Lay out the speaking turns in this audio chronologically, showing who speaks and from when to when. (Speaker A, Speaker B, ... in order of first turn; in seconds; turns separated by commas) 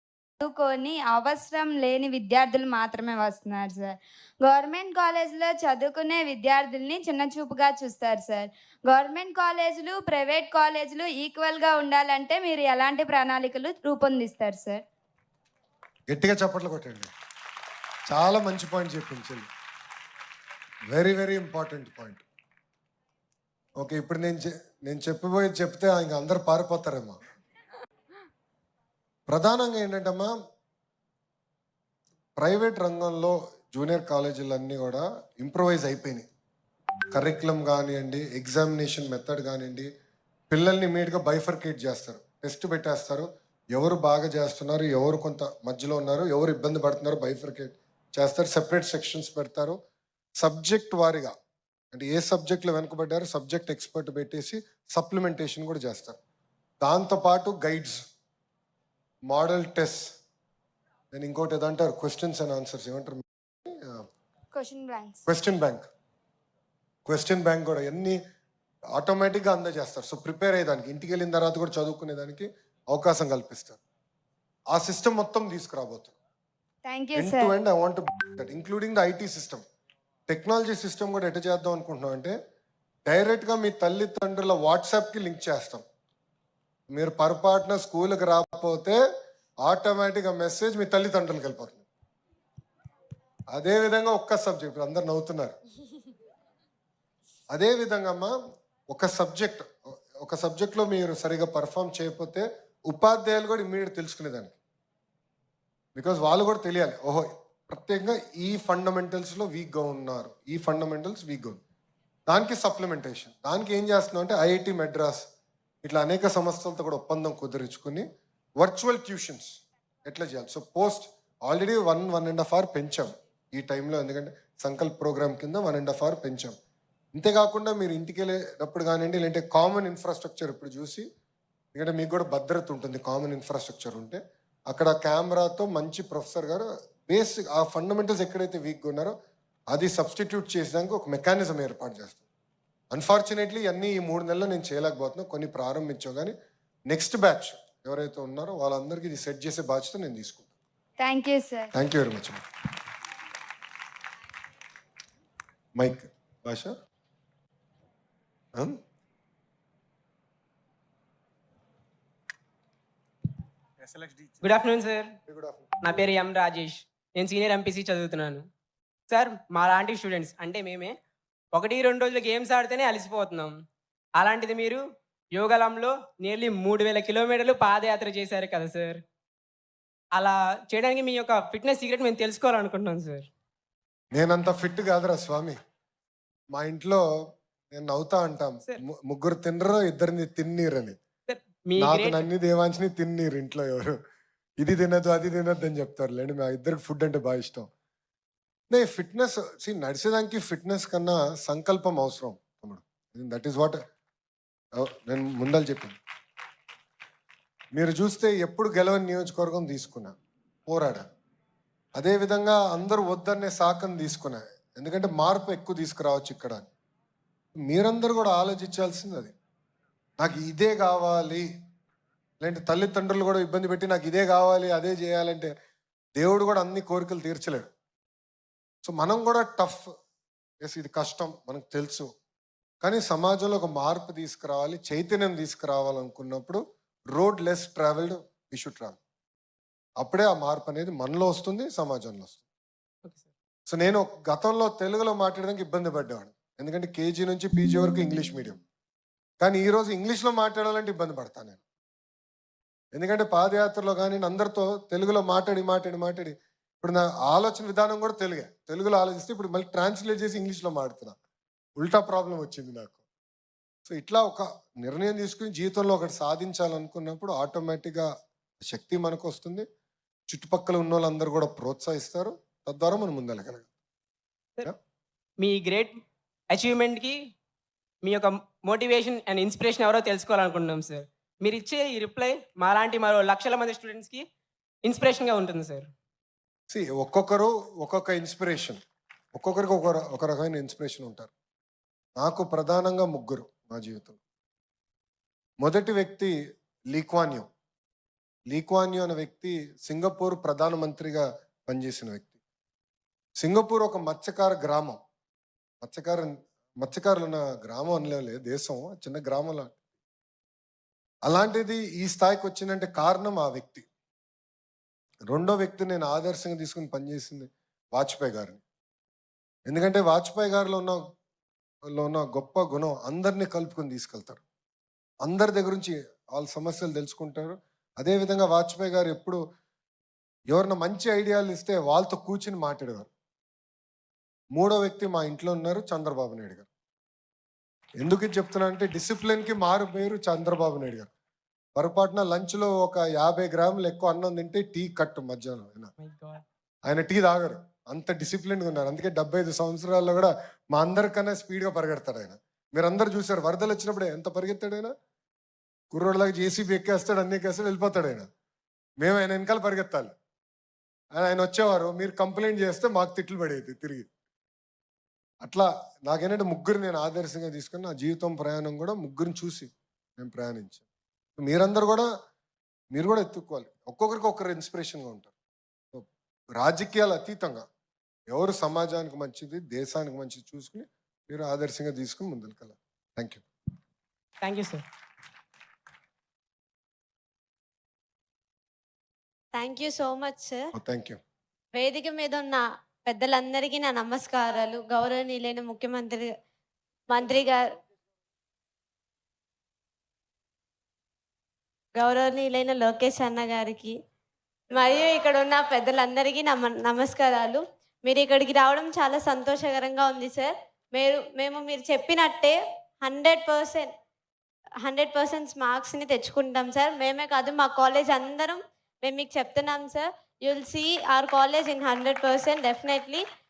Speaker A: 0.4-14.8, Speaker B: 16.1-17.1, Speaker B: 18.1-19.5, Speaker B: 20.9-22.2, Speaker B: 23.8-27.2, Speaker B: 29.3-30.3, Speaker B: 32.4-36.2, Speaker B: 37.1-39.9, Speaker B: 40.5-49.8, Speaker B: 50.4-51.3, Speaker B: 51.9-56.2, Speaker B: 56.8-58.0, Speaker B: 59.3-60.1, Speaker B: 61.1-64.0, Speaker A: 64.5-65.2, Speaker B: 65.2-65.9, Speaker B: 67.0-68.2, Speaker B: 68.9-73.8, Speaker B: 74.7-76.1, Speaker A: 76.8-77.5, Speaker B: 77.1-79.6, Speaker B: 80.3-82.3, Speaker B: 83.0-85.8, Speaker B: 86.9-89.0, Speaker B: 89.6-91.8, Speaker B: 93.5-95.6, Speaker B: 97.5-98.3, Speaker B: 98.9-104.6, Speaker B: 105.9-111.6, Speaker B: 112.3-115.2, Speaker B: 115.8-118.0, Speaker B: 118.6-126.6, Speaker B: 127.1-131.0, Speaker B: 131.7-139.1, Speaker B: 139.7-142.2, Speaker B: 142.9-146.3, Speaker B: 146.9-150.5, Speaker A: 151.0-151.7, Speaker B: 151.7-152.4, Speaker B: 155.8-156.7, Speaker C: 164.4-165.2, Speaker B: 165.3-165.7, Speaker C: 165.8-168.5, Speaker C: 169.1-170.9, Speaker C: 171.5-173.6, Speaker C: 174.2-179.0, Speaker C: 180.1-183.3, Speaker B: 184.1-185.6, Speaker B: 186.5-187.0, Speaker B: 187.7-191.0, Speaker C: 191.3-192.2, Speaker B: 191.8-194.0, Speaker B: 194.6-197.7, Speaker B: 198.7-203.8, Speaker B: 204.8-206.0, Speaker B: 207.7-210.2, Speaker B: 210.7-211.0, Speaker B: 211.9-216.7, Speaker B: 217.6-219.3, Speaker B: 220.2-221.5, Speaker B: 222.4-225.5, Speaker B: 226.2-227.7, Speaker B: 228.8-229.9, Speaker B: 230.6-232.1, Speaker B: 232.8-236.6, Speaker B: 237.1-239.0, Speaker B: 240.0-242.4, Speaker C: 243.0-243.3, Speaker B: 243.7-248.6, Speaker B: 249.4-251.6, Speaker B: 252.9-261.1, Speaker B: 261.8-263.0, Speaker B: 263.9-268.1, Speaker B: 268.6-269.6, Speaker B: 270.3-273.7, Speaker C: 275.4-277.2, Speaker C: 278.0-284.2, Speaker C: 284.8-285.9, Speaker B: 286.7-288.8, Speaker B: 289.3-291.3, Speaker B: 292.2-294.2, Speaker B: 295.6-296.3, Speaker B: 296.9-297.5, Speaker B: 298.5-302.3, Speaker B: 303.4-305.0, Speaker B: 305.8-309.8, Speaker B: 311.2-313.8, Speaker B: 315.3-318.6, Speaker B: 319.7-321.0, Speaker B: 321.9-324.4, Speaker B: 325.2-329.4, Speaker B: 330.5-333.1, Speaker B: 334.5-336.7, Speaker B: 338.0-341.1, Speaker B: 341.8-345.9, Speaker C: 346.0-346.4, Speaker B: 346.9-354.9, Speaker B: 355.9-358.2, Speaker B: 359.0-360.1, Speaker B: 361.1-364.1, Speaker B: 365.4-370.8, Speaker B: 371.4-372.1, Speaker B: 372.9-375.3, Speaker B: 375.9-377.6, Speaker B: 378.3-383.4, Speaker C: 384.4-384.8, Speaker D: 389.5-390.7, Speaker B: 390.7-391.2, Speaker D: 391.7-396.3, Speaker D: 397.1-397.6, Speaker D: 401.9-403.9, Speaker D: 404.7-413.9, Speaker D: 414.8-423.2